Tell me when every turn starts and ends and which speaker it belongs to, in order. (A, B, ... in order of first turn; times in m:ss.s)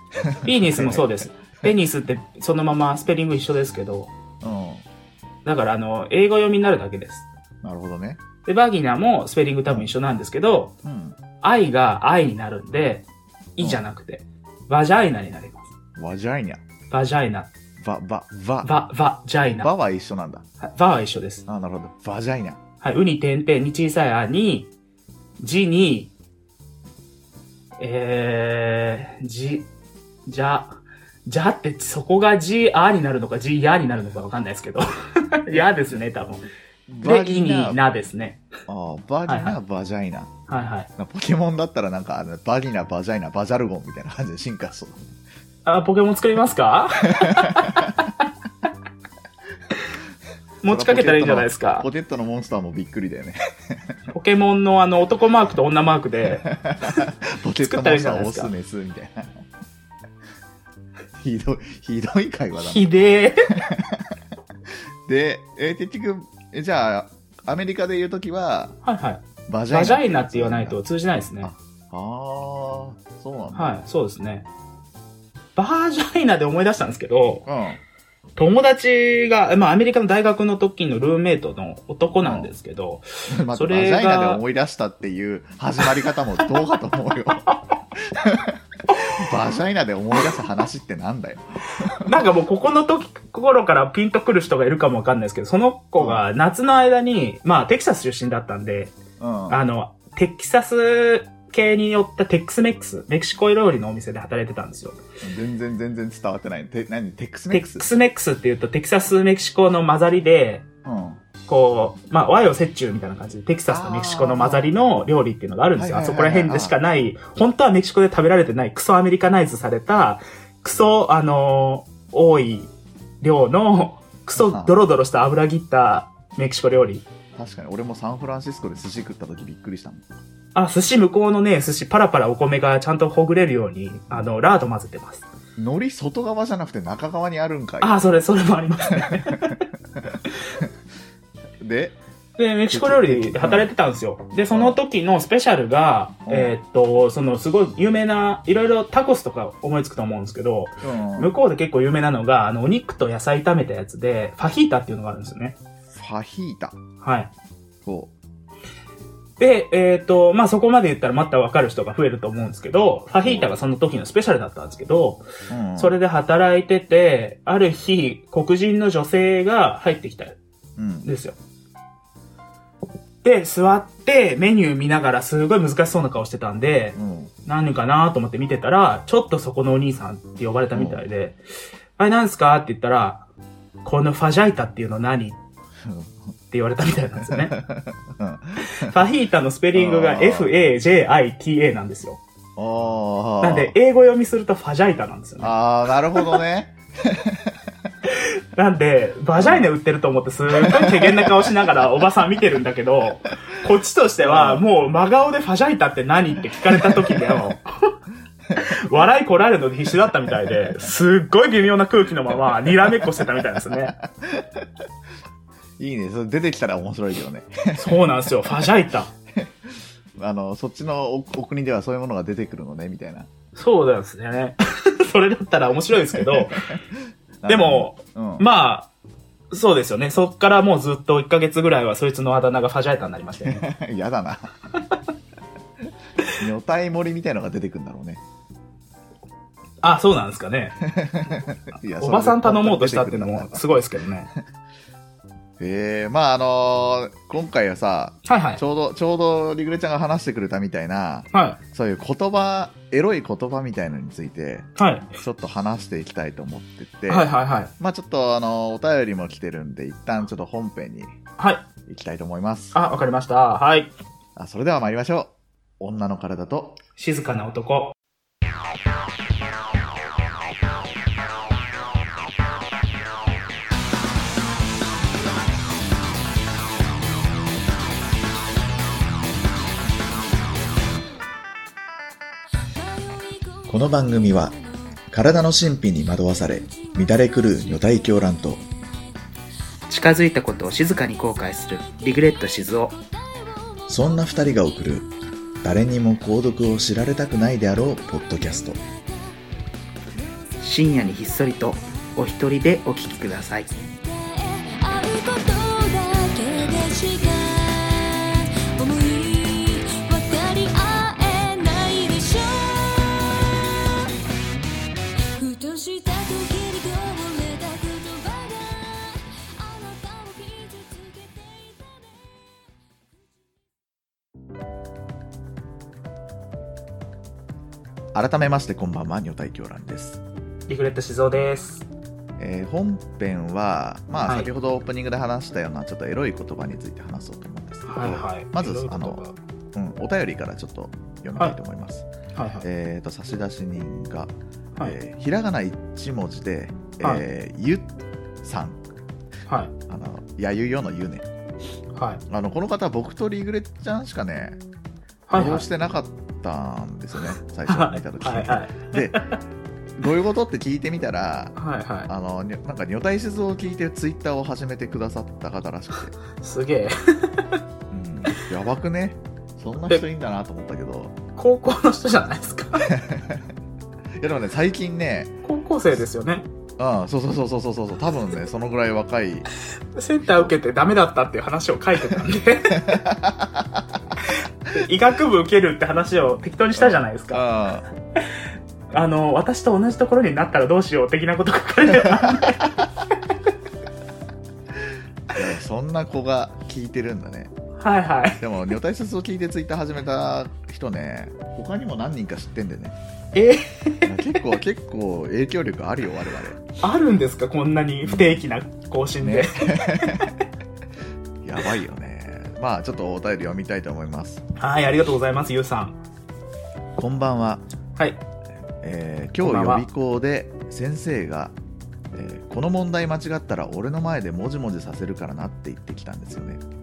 0:00.2-0:01.2 A
0:00.4-0:04.1 B
0:04.4-0:04.8 A
0:05.4-0:07.3 B
0:07.6-0:08.2 A
0:08.4-0:10.7 B
0:09.7-0:09.9 A
0:10.8-0:11.2 A
0:11.4-0:13.0 B
0:13.6-0:15.7 B
0:16.0-0:16.6 A
0:16.9-0:17.5 B
0:17.8-0:18.8 A
0:18.6-0:19.7 B
0:19.5-0:20.4 A
0:20.6-0:21.4 B
0:21.4-0:22.6 A
0:22.8-0:24.7 B
0:25.4-0:26.1 B
0:27.8-0:29.7 B
0:30.2-0:36.4 B
0:35.5-0:36.0 A
0:36.9-0:37.8 A
0:37.0-0:38.4 B
0:38.7-0:40.3 A
0:39.2-0:39.6 B
0:40.5-0:40.9 B
0:41.0-0:45.1 A
0:45.6-0:48.3 B
0:47.1-0:48.0 A
0:50.6-0:51.9 B
0:50.6-0:53.9 A
0:54.1-0:57.0 B
0:56.4-0:59.4 A
0:57.6-0:58.5 B
1:01.2-1:02.9 A
1:02.6-1:03.6 B
1:03.5-1:04.2 A
1:05.1-1:08.8 A
1:08.8-1:11.5 B
1:09.5-1:10.8 A
1:11.4-1:13.8 A
1:13.5-1:14.5 B
1:15.6-1:17.4 B
1:17.4-1:17.8 A
1:18.4-1:24.4 B
1:22.2-1:22.5 A
1:23.3-1:28.6 A
1:29.1-1:32.1 A
1:32.0-1:39.0 B
1:36.0-1:36.2 A
1:39.2-1:39.6 A
1:39.5-1:45.0 B
1:45.2-1:47.9 A
1:47.5-1:50.6 B
1:50.8-1:51.2 A
1:51.5-2:02.7 B
1:53.7-1:54.7 A
1:55.8-1:56.8 A
2:03.2-2:07.0 B
2:04.4-2:04.8 A
2:07.4-2:10.1 A
2:10.5-2:15.2 B
2:15.6-2:18.0 A
2:17.8-2:19.6 B
2:19.0-2:20.7 A
2:21.6-2:22.0 A
2:22.4-2:35.6 B
2:22.7-2:23.7 A
2:24.5-2:24.8 A
2:26.2-2:26.5 A
2:30.8-2:31.3 A
2:35.9-2:36.8 A
2:37.0-2:37.3 B
2:37.8-2:38.1 A
2:39.4-2:45.2 B
2:43.2-2:43.5 A
2:45.5-2:46.0 A
2:45.8-2:50.4 B
2:50.8-2:51.1 A
2:51.0-2:51.4 B
2:53.2-3:01.4 B
2:57.0-2:57.3 A
3:00.7-3:01.0 A
3:02.0-3:03.2 B
3:03.8-3:05.4 B
3:05.8-3:06.1 A
3:06.5-3:07.6 B
3:07.3-3:09.0 A
3:08.6-3:12.2 B
3:09.7-3:10.5 A
3:12.6-3:13.7 A
3:13.4-3:15.6 B
3:15.4-3:17.7 A
3:16.1-3:16.4 B
3:18.0-3:27.9 B
3:19.3-3:19.7 A
3:20.5-3:21.4 A
3:24.2-3:24.6 A
3:26.4-3:27.5 A
3:28.6-3:33.9 B
3:30.2-3:30.9 A
3:32.3-3:34.7 A
3:35.8-3:38.6 A
3:37.8-3:39.1 B
3:40.2-3:43.3 A
3:43.5-3:46.7 B
3:46.1-3:48.4 A
3:47.5-3:48.9 B
3:49.5-3:53.6 B
3:53.4-3:54.5 A
3:56.3-3:58.2 A
3:59.8-4:00.8 B
4:00.8-4:03.7 A
4:02.0-4:04.3 B
4:05.6-4:14.7 A
4:08.2-4:08.6 B
4:11.3-4:11.6 B
4:14.8-4:15.2 B
4:15.2-4:21.1 A
4:17.1-4:17.7 B
4:21.4-4:21.6 B
4:21.9-4:22.7 A
4:22.7-4:23.9 B
4:24.4-4:26.8 A
4:27.0-4:27.9 B
4:42.8-4:44.8 C
4:43.7-4:44.5 A
4:45.1-4:48.6 A
4:46.6-4:47.3 C
4:49.9-4:52.9 B
4:51.6-4:54.5 C
4:53.9-4:55.1 A
4:55.6-4:58.8 A
4:58.1-4:59.4 C
5:00.5-5:01.8 C
5:00.6-5:03.7 B
5:03.7-5:14.1 C
5:15.3-5:22.2 C
5:28.1-5:30.2 A
5:30.7-5:31.8 B
5:32.4-5:39.2 A
5:37.8-5:39.4 B
5:39.7-5:42.1 A
5:42.3-5:42.6 B
5:42.6-5:47.9 A
5:48.4-5:48.8 A
5:49.5-5:49.7 B
5:49.9-5:51.2 A
5:51.9-5:52.2 B
5:52.3-5:54.6 A
5:55.3-5:55.7 B
5:55.3-5:59.2 A
5:57.6-5:59.4 B
6:00.0-6:01.5 A
6:01.6-6:02.1 B
6:02.1-6:06.1 A
6:06.4-6:07.6 B
6:07.9-6:11.1 A
6:11.4-6:13.0 B
6:12.8-6:13.5 A
6:14.2-6:15.3 A
6:15.4-6:16.5 B
6:16.8-6:19.5 A
6:19.9-6:23.0 B
6:20.2-6:20.5 A
6:22.7-6:24.0 A
6:24.7-6:27.4 B
6:26.7-6:27.8 A
6:28.9-6:32.8 B
6:32.0-6:32.6 A
6:35.3-6:37.5 A
6:37.8-6:38.4 B
6:38.4-6:43.0 A
6:43.3-6:44.1 B
6:44.0-6:46.6 A
6:46.8-6:50.3 B
6:48.0-6:48.4 A
6:49.2-6:50.3 A
6:51.4-6:54.4 A
6:54.6-6:56.0 B
6:57.0-6:57.6 A
6:58.8-7:01.5 A
6:59.4-6:59.8 B
7:02.1-7:06.6 A